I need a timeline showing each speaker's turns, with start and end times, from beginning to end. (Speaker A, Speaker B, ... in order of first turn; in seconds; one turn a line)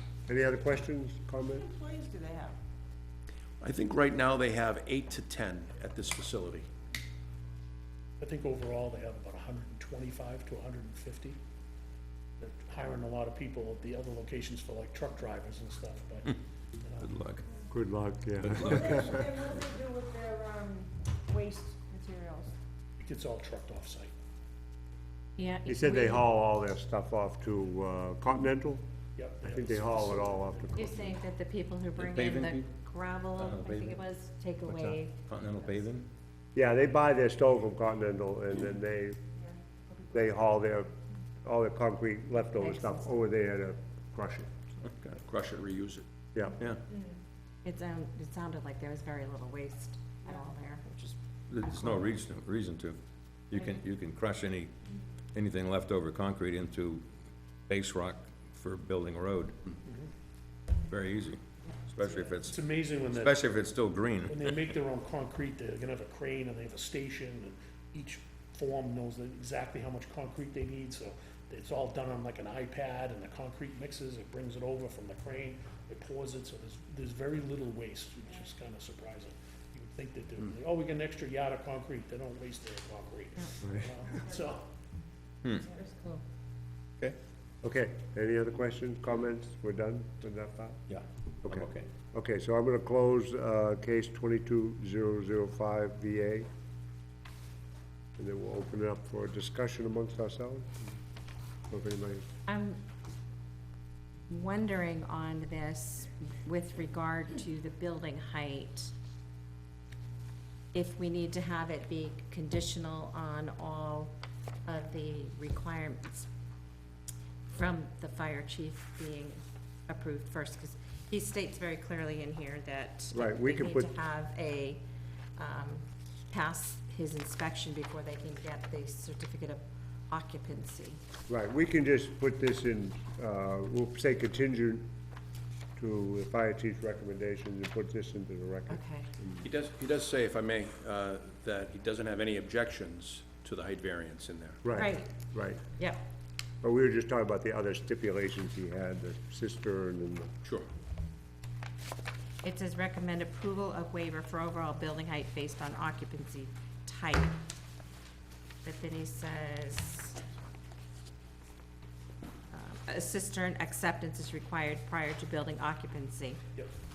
Speaker A: 0.3-1.7
Speaker B: 1.6-2.6
Speaker C: 3.6-6.7
Speaker D: 8.2-11.4
Speaker D: 12.4-17.1
Speaker E: 17.0-17.4
Speaker A: 17.7-19.2
Speaker E: 18.4-19.0
Speaker B: 18.7-22.5
Speaker D: 23.0-24.1
Speaker F: 25.4-26.3
Speaker A: 25.7-28.8
Speaker D: 29.2-30.8
Speaker A: 29.4-31.2
Speaker F: 30.8-35.3
Speaker E: 32.0-32.7
Speaker E: 33.2-34.0
Speaker E: 35.3-36.1
Speaker A: 36.5-39.2
Speaker A: 40.1-40.9
Speaker A: 41.4-44.7
Speaker F: 42.6-43.1
Speaker C: 44.9-46.1
Speaker F: 47.6-51.0
Speaker E: 51.5-53.0
Speaker E: 53.5-54.7
Speaker E: 55.3-57.0
Speaker E: 57.7-59.6
Speaker E: 60.9-64.6
Speaker D: 62.4-63.4
Speaker D: 64.3-84.7
Speaker F: 85.8-86.2
Speaker A: 87.6-90.8
Speaker E: 90.9-91.8
Speaker A: 91.5-96.5
Speaker A: 98.2-100.9
Speaker A: 101.7-102.2
Speaker F: 102.5-102.8
Speaker F: 104.3-108.9
Speaker F: 110.7-114.1
Speaker F: 114.7-116.3
Speaker F: 117.5-124.8
Speaker A: 123.1-123.9
Speaker F: 125.4-131.0
Speaker A: 131.3-134.9
Speaker A: 135.8-139.4
Speaker F: 138.7-139.1
Speaker C: 139.4-144.6
Speaker A: 144.6-145.7
Speaker F: 144.7-145.1
Speaker A: 146.6-150.3
Speaker F: 152.4-157.4
Speaker F: 158.6-160.2
Speaker F: 162.5-166.4